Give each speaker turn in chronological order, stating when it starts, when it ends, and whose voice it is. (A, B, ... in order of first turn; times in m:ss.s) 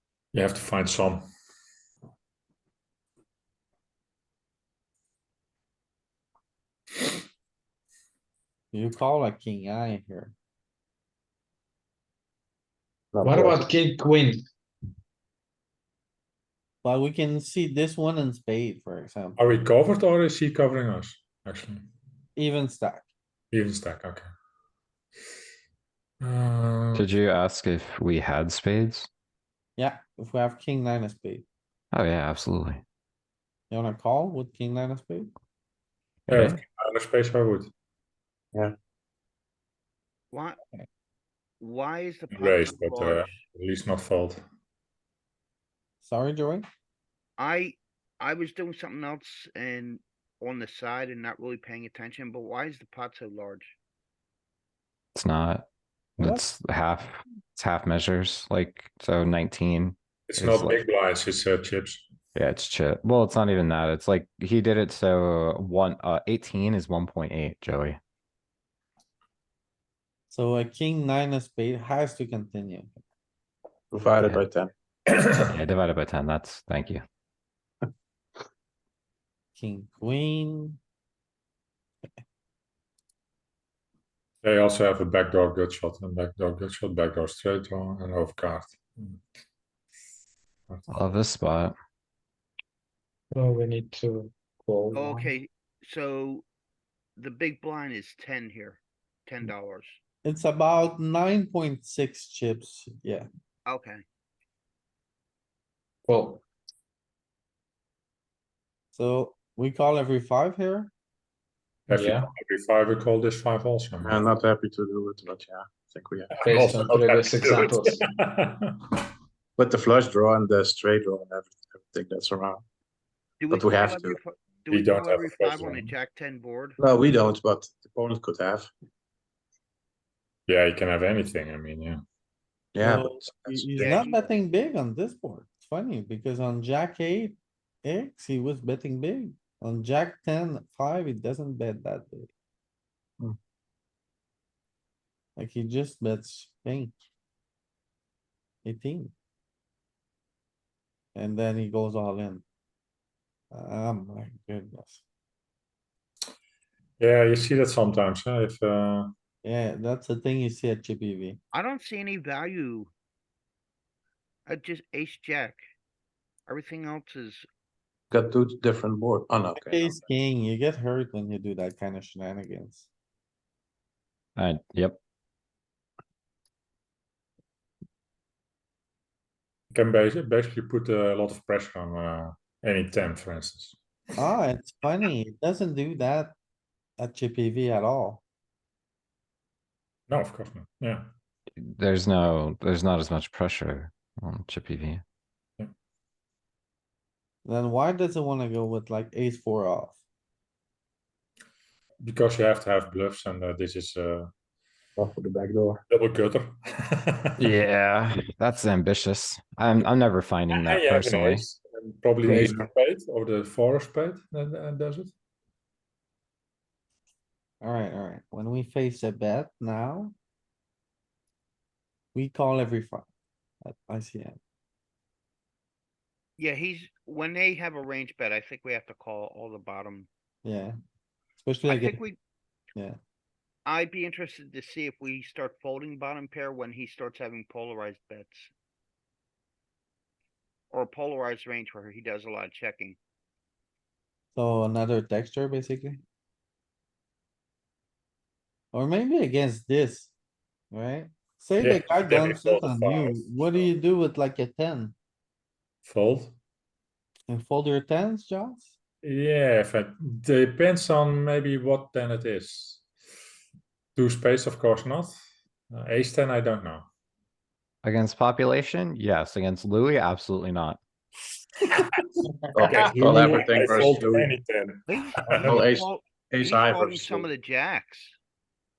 0:00.3-0:01.2 A
0:08.7-0:10.4 B
0:13.1-0:13.6 C
0:13.2-0:14.4 D
0:16.8-0:19.5 B
0:19.4-0:21.9 A
0:22.4-0:23.1 B
0:23.5-0:24.3 A
0:26.2-0:27.1 A
0:27.0-0:29.1 E
0:29.8-0:31.5 B
0:31.9-0:32.8 E
0:33.7-0:35.3 B
0:36.3-0:36.6 E
0:36.3-0:37.7 A
0:40.3-0:40.6 F
0:41.6-0:43.4 F
0:42.3-0:44.4 A
0:46.0-0:46.7 B
0:47.4-0:53.8 F
0:55.2-0:55.7 E
0:56.2-1:00.8 E
0:56.2-0:56.4 B
1:00.3-1:02.1 A
1:02.4-1:08.0 E
1:10.3-1:12.9 B
1:13.9-1:14.7 C
1:15.4-1:17.0 E
1:19.6-1:20.8 B
1:24.4-1:29.2 A
1:30.7-1:31.0 A
1:30.9-1:31.8 E
1:33.3-1:35.3 D
1:34.9-1:36.4 F
1:37.2-1:40.0 F
1:40.2-1:43.3 B
1:43.7-1:44.0 F
1:46.1-1:46.4 D
1:48.9-1:50.9 B
1:51.9-1:54.3 A
1:51.9-1:52.3 D
1:54.0-1:56.4 C
1:56.4-1:59.0 A
1:56.4-1:58.0 D
1:59.6-2:02.6 C
2:03.4-2:06.8 F
2:03.5-2:04.2 C
2:04.7-2:05.9 A
2:06.8-2:08.7 C
2:10.5-2:12.0 A
2:12.8-2:14.2 C
2:12.8-2:22.3 B
2:13.8-2:14.1 F
2:25.4-2:27.0 B
2:28.6-2:29.1 B
2:31.2-2:32.4 B
2:33.5-2:35.0 B
2:37.0-2:39.1 A
2:39.4-2:41.4 B
2:41.5-2:42.9 F
2:44.5-2:45.6 F
2:46.5-2:47.5 F
2:48.1-2:49.7 C
2:49.6-2:52.9 B
2:54.4-2:55.0 E
2:59.7-3:03.8 A
3:04.2-3:06.4 B
3:07.0-3:08.2 B
3:10.1-3:11.1 A
3:11.6-3:15.0 E
3:17.4-3:20.0 B
3:22.0-3:24.3 A
3:25.0-3:25.8 C
3:25.9-3:27.4 A
3:27.4-3:31.5 E
3:30.5-3:35.1 A
3:32.2-3:32.6 C
3:37.6-3:40.1 B
3:42.1-3:43.1 B
3:43.6-3:44.4 B
3:46.4-3:50.1 F
3:50.4-3:50.8 B
3:51.4-3:52.0 B
3:51.7-3:52.2 F
3:53.7-3:58.5 F
4:00.7-4:03.0 F
4:04.4-4:06.0 B
4:08.7-4:10.1 B
4:10.7-4:15.0 B
4:11.6-4:13.7 A
4:15.8-4:16.4 A
4:17.3-4:18.7 B
4:19.0-4:22.8 A
4:24.0-4:25.2 A
4:25.7-4:26.9 A
4:27.8-4:30.8 E
4:32.5-4:34.4 C
4:32.6-4:35.7 A
4:34.9-4:38.2 F
4:35.5-4:37.3 C